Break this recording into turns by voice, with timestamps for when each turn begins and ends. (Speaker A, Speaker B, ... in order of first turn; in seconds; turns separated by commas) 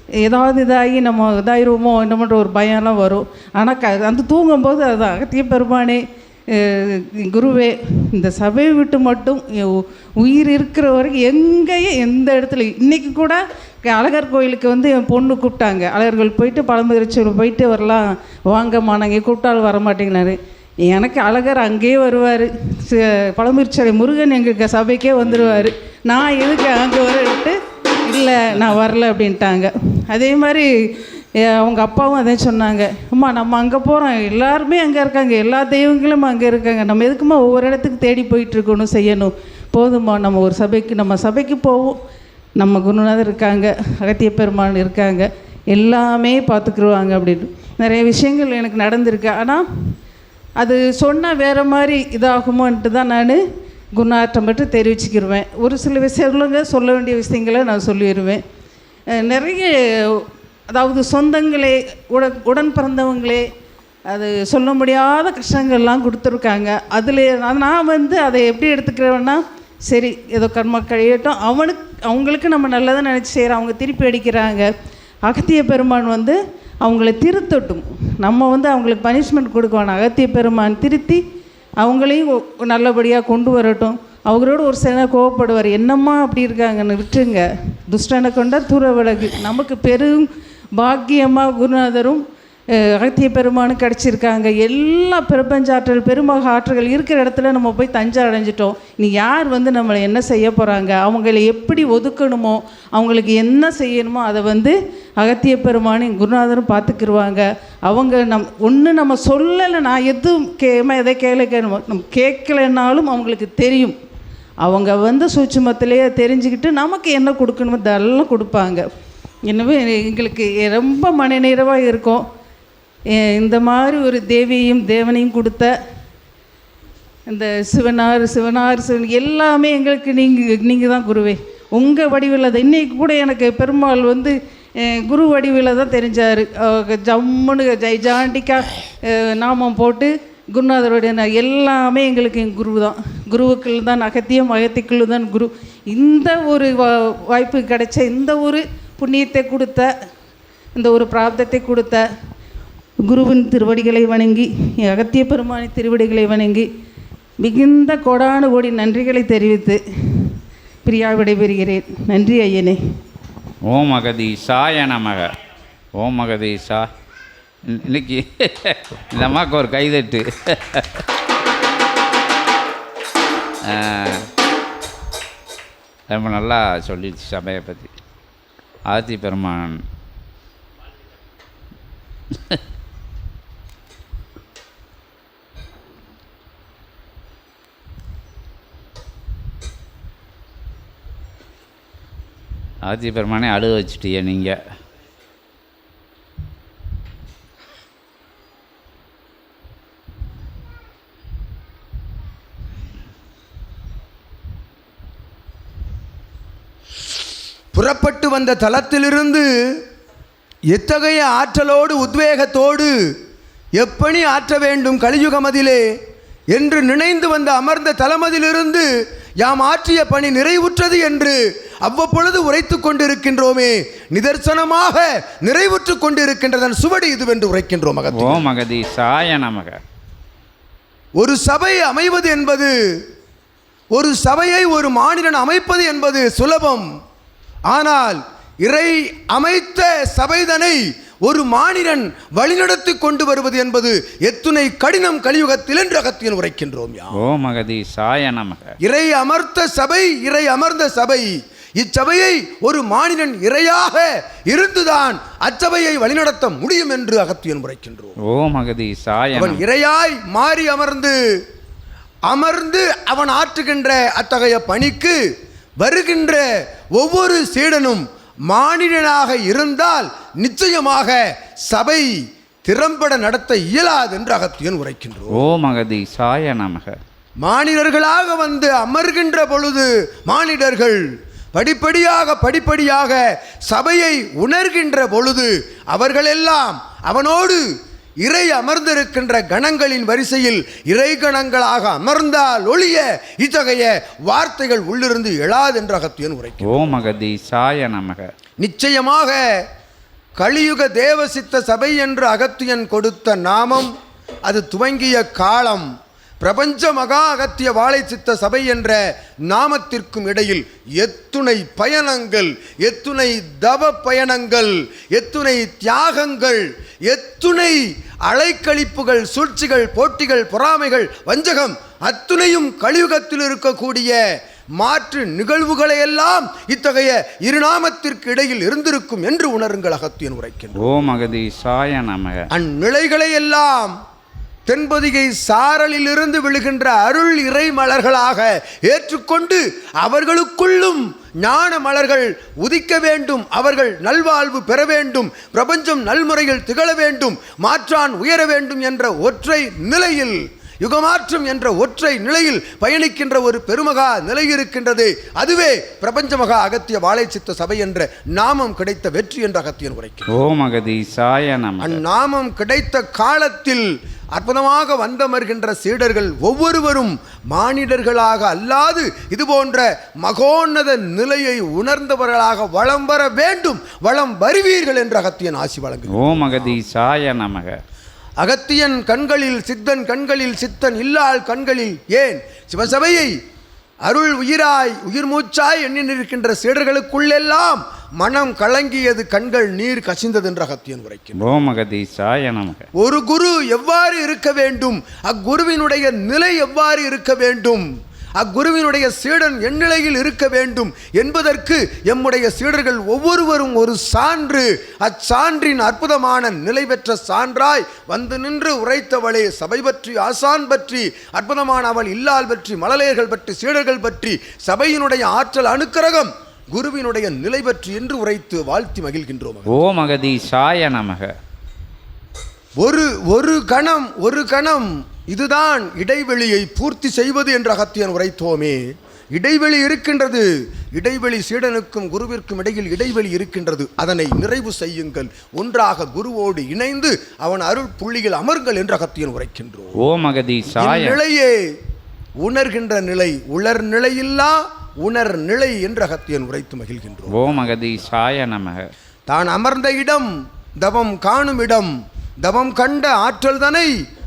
Speaker A: 0.2-42.0, Speaker B: 25.2-25.7, Speaker A: 42.6-49.6, Speaker A: 50.6-53.4, Speaker A: 53.9-58.4, Speaker A: 59.2-63.5, Speaker A: 64.1-74.7, Speaker A: 75.2-81.2, Speaker A: 81.8-113.9, Speaker A: 114.6-118.8, Speaker A: 119.5-122.2, Speaker A: 123.1-125.7, Speaker A: 127.3-149.9, Speaker A: 150.7-152.0, Speaker A: 153.0-156.7, Speaker A: 157.4-162.8, Speaker B: 163.7-165.3, Speaker B: 166.0-166.9, Speaker B: 167.7-170.9, Speaker B: 173.7-174.2, Speaker B: 176.1-177.9, Speaker B: 178.9-179.8, Speaker B: 192.8-194.6, Speaker C: 207.7-209.5, Speaker C: 210.7-212.9, Speaker C: 213.8-215.8, Speaker C: 216.5-218.9, Speaker C: 219.4-228.5, Speaker B: 228.1-229.8, Speaker C: 231.2-232.7, Speaker C: 233.9-236.9, Speaker C: 237.7-247.2, Speaker B: 247.2-248.7, Speaker C: 248.8-251.3, Speaker C: 251.8-258.2, Speaker B: 258.3-259.6, Speaker C: 259.3-261.1, Speaker C: 262.3-265.2, Speaker C: 265.8-272.1, Speaker C: 272.6-275.4, Speaker B: 275.3-276.9, Speaker C: 277.4-281.0, Speaker C: 281.5-287.6, Speaker C: 288.2-296.8, Speaker B: 296.6-298.3, Speaker C: 298.6-299.4, Speaker C: 300.4-305.9, Speaker C: 306.4-309.0, Speaker C: 309.5-324.2, Speaker C: 324.8-330.8, Speaker B: 330.8-332.4, Speaker C: 332.5-333.9, Speaker C: 334.7-360.4, Speaker B: 360.3-362.0, Speaker C: 361.8-376.8, Speaker B: 376.1-377.7, Speaker C: 378.4-383.3, Speaker C: 384.0-391.4, Speaker B: 391.4-392.9, Speaker C: 393.0-397.8, Speaker C: 398.4-419.8, Speaker B: 419.7-421.3, Speaker C: 422.8-428.8, Speaker C: 429.3-439.9, Speaker B: 440.0-441.2, Speaker C: 440.7-441.6, Speaker C: 442.4-447.4, Speaker B: 447.3-448.8, Speaker C: 449.3-450.3, Speaker C: 450.8-451.9, Speaker C: 452.4-453.9